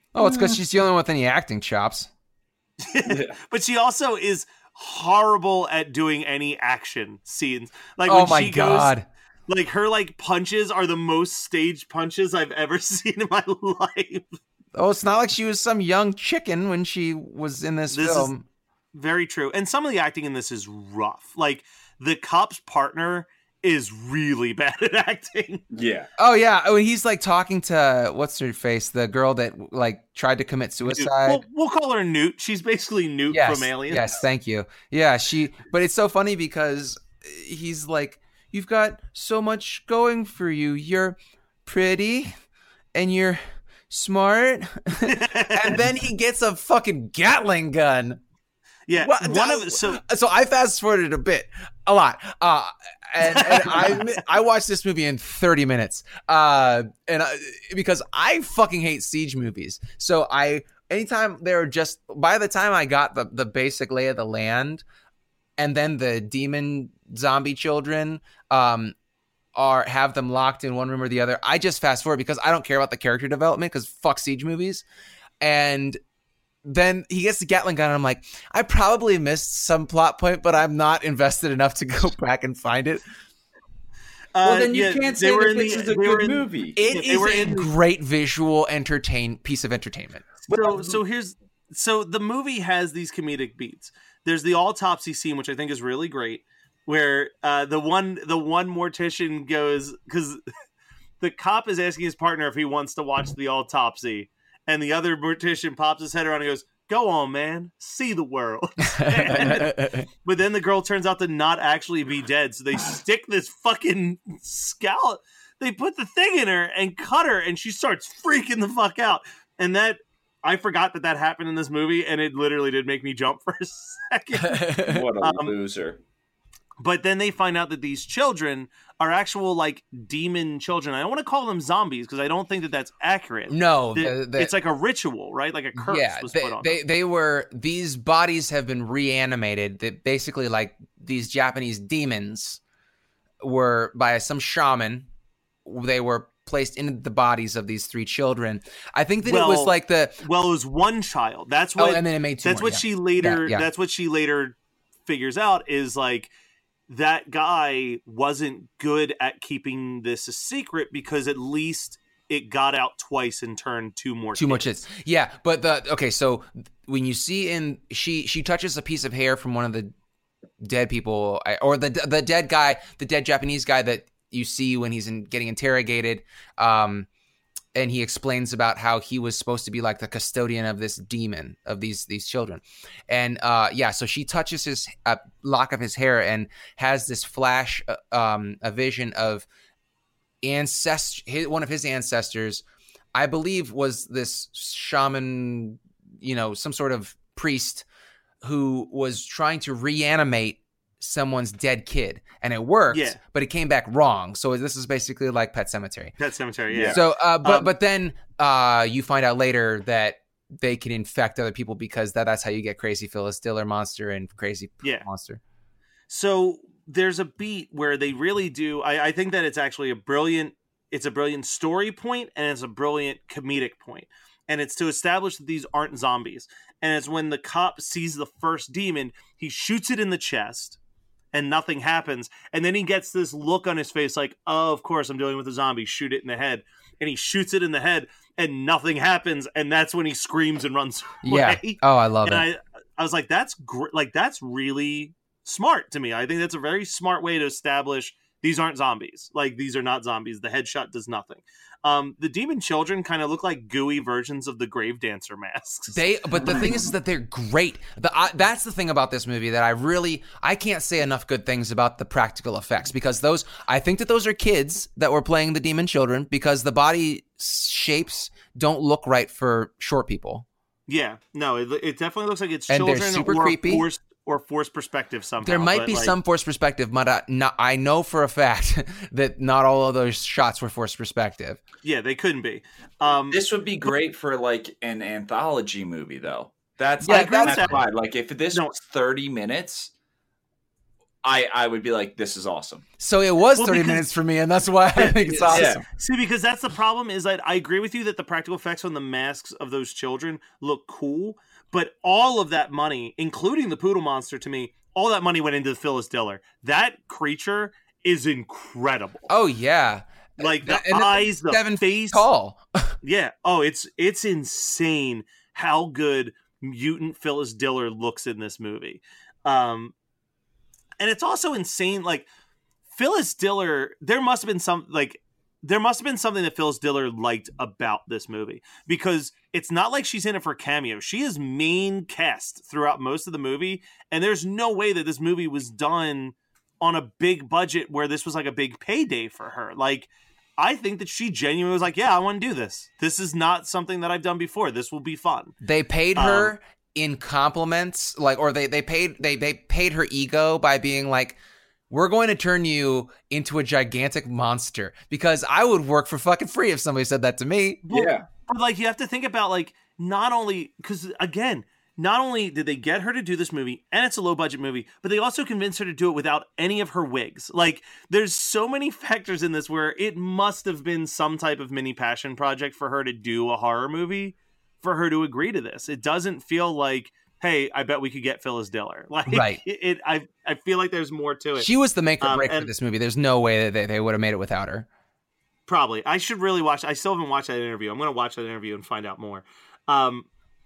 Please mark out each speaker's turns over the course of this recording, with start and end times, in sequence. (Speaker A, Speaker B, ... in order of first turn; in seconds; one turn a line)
Speaker A: 0.1-2.1
Speaker B: 2.8-8.9
Speaker C: 3.0-3.4
Speaker A: 8.1-9.1
Speaker B: 9.5-14.2
Speaker A: 14.8-18.4
Speaker B: 17.9-18.3
Speaker B: 18.9-25.6
Speaker C: 25.7-26.1
Speaker A: 26.2-31.4
Speaker B: 30.9-34.2
Speaker A: 33.3-42.3
Speaker A: 42.9-48.2
Speaker B: 45.0-45.8
Speaker B: 48.9-50.0
Speaker A: 49.0-64.8
Speaker B: 53.3-54.0
Speaker A: 65.6-69.0
Speaker A: 69.6-74.8
Speaker A: 75.4-76.0
Speaker A: 76.6-83.0
Speaker B: 84.4-87.7
Speaker C: 84.4-86.8
Speaker A: 86.8-90.4
Speaker B: 90.5-100.4
Speaker C: 90.7-91.0
Speaker B: 101.2-125.5
Speaker A: 109.0-110.1
Speaker A: 124.4-125.1
Speaker C: 124.8-126.0
Speaker B: 126.8-136.8
Speaker A: 133.5-134.5
Speaker A: 135.8-142.6
Speaker A: 143.4-145.1
Speaker A: 145.7-150.2
Speaker B: 149.2-154.6
Speaker A: 151.8-153.7
Speaker B: 155.1-156.3
Speaker B: 156.9-164.7
Speaker A: 164.4-169.9
Speaker A: 170.6-177.1
Speaker A: 177.8-189.5
Speaker A: 190.4-192.6
Speaker A: 193.2-197.9
Speaker A: 198.4-206.1
Speaker B: 202.9-203.2
Speaker B: 206.2-207.7
Speaker C: 206.7-207.0
Speaker A: 206.9-215.4
Speaker B: 216.1-230.8
Speaker B: 231.3-256.6
Speaker A: 241.2-242.5
Speaker A: 255.9-270.5
Speaker B: 270.9-276.1
Speaker A: 272.7-273.9
Speaker A: 275.4-281.6
Speaker B: 281.8-283.4
Speaker C: 283.3-289.9
Speaker B: 287.0-287.8
Speaker A: 287.0-287.8
Speaker B: 288.5-288.8
Speaker C: 291.2-292.8
Speaker A: 293.0-295.8
Speaker B: 293.6-294.1
Speaker B: 295.0-309.3
Speaker C: 295.3-295.8
Speaker A: 309.3-313.0
Speaker B: 310.4-312.3
Speaker B: 313.0-319.9
Speaker B: 321.0-322.3
Speaker B: 322.9-345.5
Speaker A: 345.6-351.4
Speaker B: 346.2-346.5
Speaker A: 351.9-357.8
Speaker B: 357.9-381.7
Speaker C: 357.9-358.2
Speaker A: 379.3-379.6
Speaker A: 381.6-384.9
Speaker B: 382.2-382.7
Speaker B: 385.7-390.3